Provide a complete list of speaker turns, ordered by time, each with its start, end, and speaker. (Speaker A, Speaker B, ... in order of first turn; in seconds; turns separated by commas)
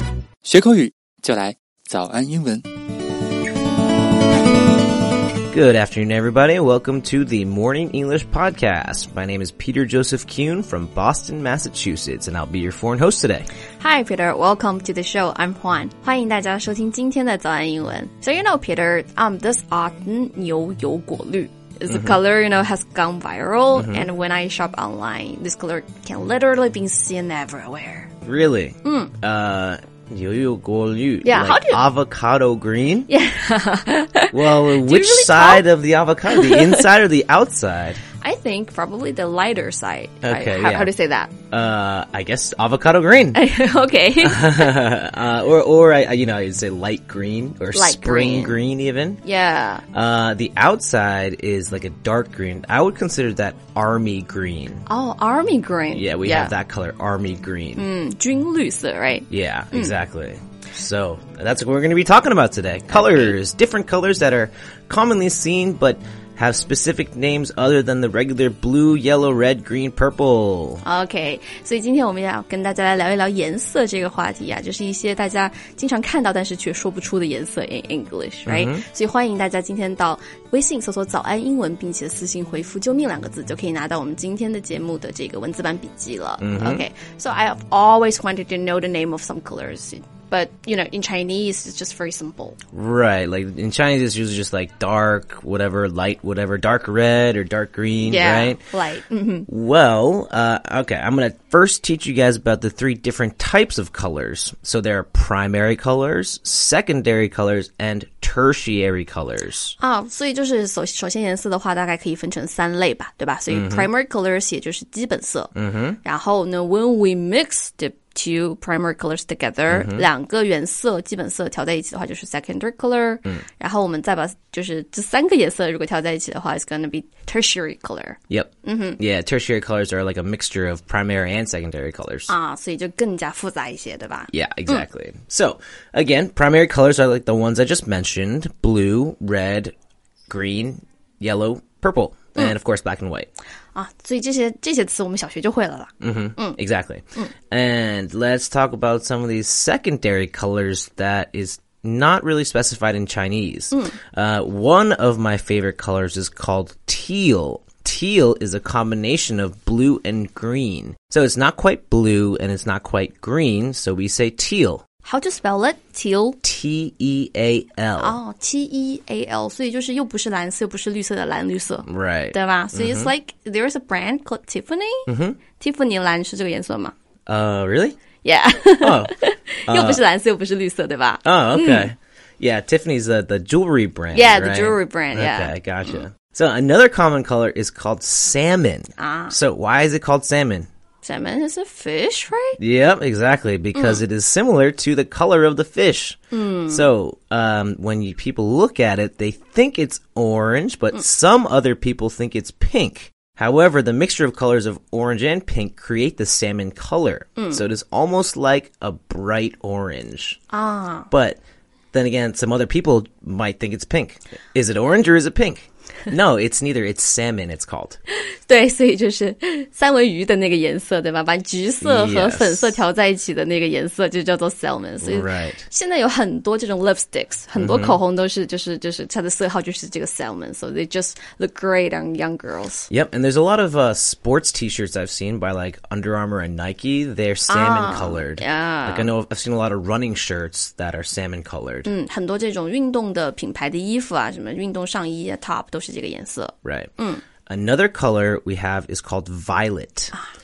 Speaker A: 0.4-2.7, Speaker B: 5.5-13.5, Speaker C: 13.8-28.1, Speaker B: 21.9-22.1, Speaker B: 23.7-24.1, Speaker B: 28.2-33.1, Speaker C: 28.8-29.1, Speaker C: 31.2-31.8, Speaker C: 33.1-35.6, Speaker B: 34.3-38.0, Speaker C: 36.3-36.9, Speaker C: 38.2-41.3, Speaker B: 40.2-40.9, Speaker B: 41.5-43.4, Speaker C: 43.3-44.7, Speaker B: 44.2-49.2, Speaker C: 47.7-48.6, Speaker C: 49.2-49.8, Speaker B: 49.9-54.8, Speaker C: 54.9-56.5, Speaker B: 55.9-57.9, Speaker C: 57.8-59.9, Speaker B: 59.3-70.8, Speaker C: 62.9-63.3, Speaker C: 70.8-92.6, Speaker B: 78.5-78.8, Speaker B: 86.4-86.8, Speaker B: 92.7-98.6, Speaker C: 98.0-99.5, Speaker B: 99.5-109.8, Speaker C: 109.8-115.5, Speaker B: 113.5-113.9, Speaker B: 115.5-116.0, Speaker C: 116.0-129.0, Speaker B: 119.7-120.1, Speaker B: 128.3-132.3, Speaker C: 132.3-134.8, Speaker B: 134.3-139.7, Speaker B: 140.3-143.3, Speaker C: 143.7-146.6, Speaker B: 146.0-164.8, Speaker C: 165.0-166.4, Speaker B: 166.4-168.2, Speaker C: 168.0-176.9, Speaker B: 171.8-173.1, Speaker B: 175.1-175.4, Speaker B: 177.3-177.9, Speaker C: 178.2-181.9, Speaker B: 178.8-179.1, Speaker B: 179.7-180.0, Speaker B: 181.2-190.7, Speaker C: 184.1-186.0, Speaker C: 189.0-189.3, Speaker C: 191.0-192.6, Speaker B: 192.6-210.4, Speaker C: 193.7-194.0, Speaker C: 196.3-196.8, Speaker C: 207.4-207.6, Speaker C: 210.5-211.1, Speaker B: 211.1-211.4, Speaker B: 211.9-218.0, Speaker C: 218.3-232.9, Speaker B: 221.8-222.8, Speaker B: 225.0-225.6, Speaker B: 227.5-228.0, Speaker B: 232.9-241.9, Speaker C: 237.5-239.1, Speaker C: 241.9-247.2, Speaker B: 246.6-246.9, Speaker B: 247.4-250.1